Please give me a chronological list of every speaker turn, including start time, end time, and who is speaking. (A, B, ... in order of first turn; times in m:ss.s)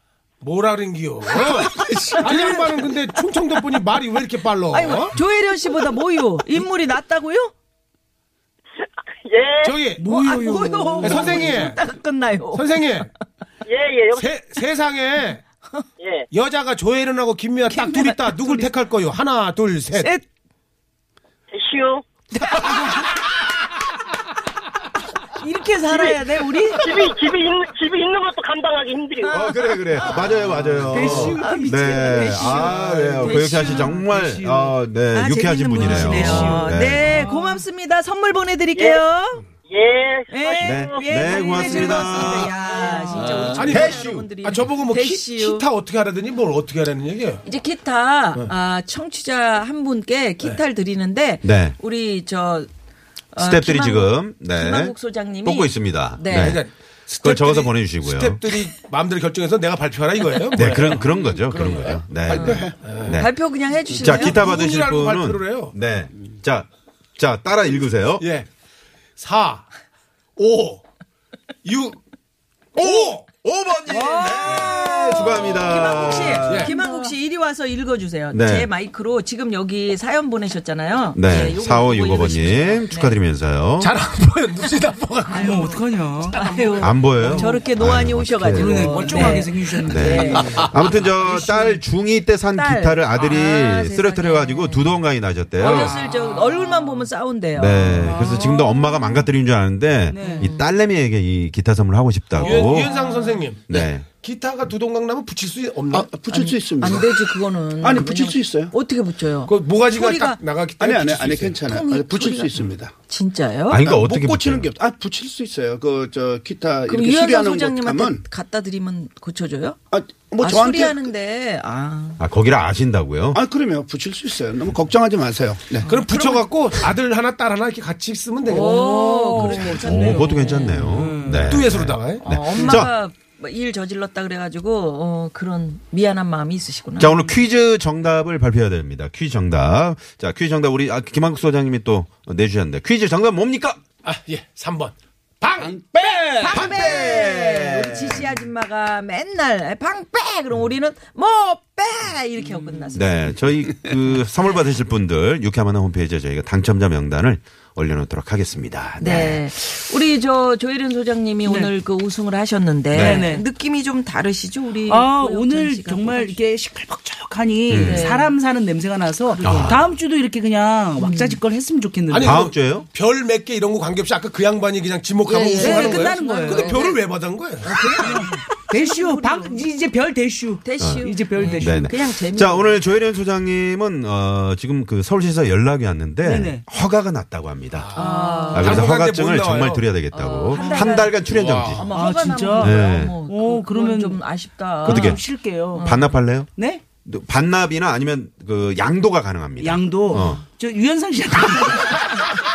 0:00.4-0:05.2 A
0:01.7-0:02.6 B
0:04.7-0:07.5 B
0:09.2-0:09.8 C
0:09.6-0:10.1 A
0:10.0-0:11.6 D
0:10.1-0:13.0 B
0:11.0-0:11.8 A
0:12.4-0:13.1 A
0:13.7-0:14.3 C
0:14.1-0:15.4 A
0:16.0-0:16.3 C
0:16.3-0:20.1 A
0:17.7-0:18.7 B
0:19.9-0:20.2 B
0:21.5-0:22.0 C
0:22.3-0:23.0 B
0:25.4-0:27.1 B
0:25.5-0:26.8 D
0:25.9-0:26.2 C
0:26.8-0:29.4 C
0:29.2-0:30.3 B
0:29.3-0:37.0 E
0:30.9-0:34.8 D
0:32.3-0:34.0 B
0:35.1-0:39.5 B
0:35.8-0:37.6 D
0:38.7-0:39.0 C
0:39.6-0:41.8 C
0:40.3-0:45.7 B
0:40.6-0:42.5 E
0:41.4-0:42.1 D
0:42.0-0:47.4 A
0:43.3-0:44.3 E
0:47.4-0:52.7 B
0:51.4-0:51.8 E
0:53.3-0:56.5 B
0:53.4-0:56.6 E
0:56.2-1:03.2 A
0:57.2-0:58.4 E
1:00.5-1:03.4 E
1:02.3-1:04.4 B
1:02.3-1:02.8 F
1:03.9-1:08.2 E
1:04.0-1:05.7 A
1:08.2-1:08.5 A
1:09.2-1:09.7 A
1:10.4-1:10.8 A
1:11.6-1:12.0 A
1:12.8-1:13.2 A
1:12.8-1:16.7 E
1:12.8-1:13.1 B
1:13.9-1:23.2 B
1:16.5-1:16.8 A
1:18.3-1:18.7 E
1:21.2-1:23.9 E
1:23.8-1:27.1 A
1:25.3-1:25.8 B
1:25.3-1:26.4 D
1:26.3-1:30.5 B
1:26.8-1:36.0 E
1:27.1-1:27.6 D
1:28.5-1:31.4 D
1:30.5-1:31.1 A
1:32.5-1:35.0 B
1:35.6-1:39.2 B
1:35.7-1:36.7 A
1:37.5-1:42.9 E
1:38.0-1:38.8 D
1:40.1-1:40.5 D
1:40.3-1:40.7 B
1:42.3-1:46.2 A
1:42.9-1:43.4 B
1:43.7-1:44.0 E
1:45.9-1:48.7 F
1:46.2-1:50.4 B
1:49.4-1:51.7 A
1:50.8-1:52.9 F
1:51.6-1:53.8 B
1:53.7-1:54.7 E
1:53.8-1:58.2 F
1:56.9-1:59.8 B
1:59.9-2:01.2 F
2:00.4-2:02.2 B
2:02.2-2:03.4 E
2:03.3-2:05.9 F
2:05.8-2:08.9 A
2:05.8-2:06.4 B
2:08.5-2:10.9 B
2:08.5-2:11.6 D
2:09.4-2:12.9 E
2:11.4-2:12.4 A
2:12.2-2:17.3 B
2:12.6-2:12.9 D
2:17.0-2:23.8 E
2:24.0-2:25.8 A
2:25.6-2:26.7 F
2:26.4-2:33.4 B
2:26.4-2:28.3 E
2:32.9-2:39.4 E
2:39.0-2:46.4 B
2:41.4-2:41.7 D
2:42.9-2:43.2 E
2:42.9-2:43.4 D
2:44.9-2:52.5 D
2:47.7-2:48.1 E
2:47.8-2:48.3 B
2:49.4-2:49.9 E
2:51.0-2:51.4 B
2:52.1-2:58.3 A
2:52.2-2:52.9 E
2:55.3-2:56.8 D
2:55.3-2:57.0 B
2:57.6-2:59.6 B
2:58.0-3:01.9 D
3:00.6-3:02.8 B
3:00.8-3:01.0 E
3:01.6-3:11.8 E
3:06.2-3:06.6 D
3:07.7-3:10.1 A
3:07.9-3:08.7 B
3:08.0-3:08.9 D
3:10.1-3:15.1 B
3:10.6-3:10.9 D
3:11.2-3:11.8 A
3:11.9-3:15.9 D
3:12.6-3:13.1 E
3:14.8-3:16.5 E
3:15.7-3:16.2 B
3:16.5-3:16.8 D
3:17.0-3:20.4 E
3:19.6-3:22.3 D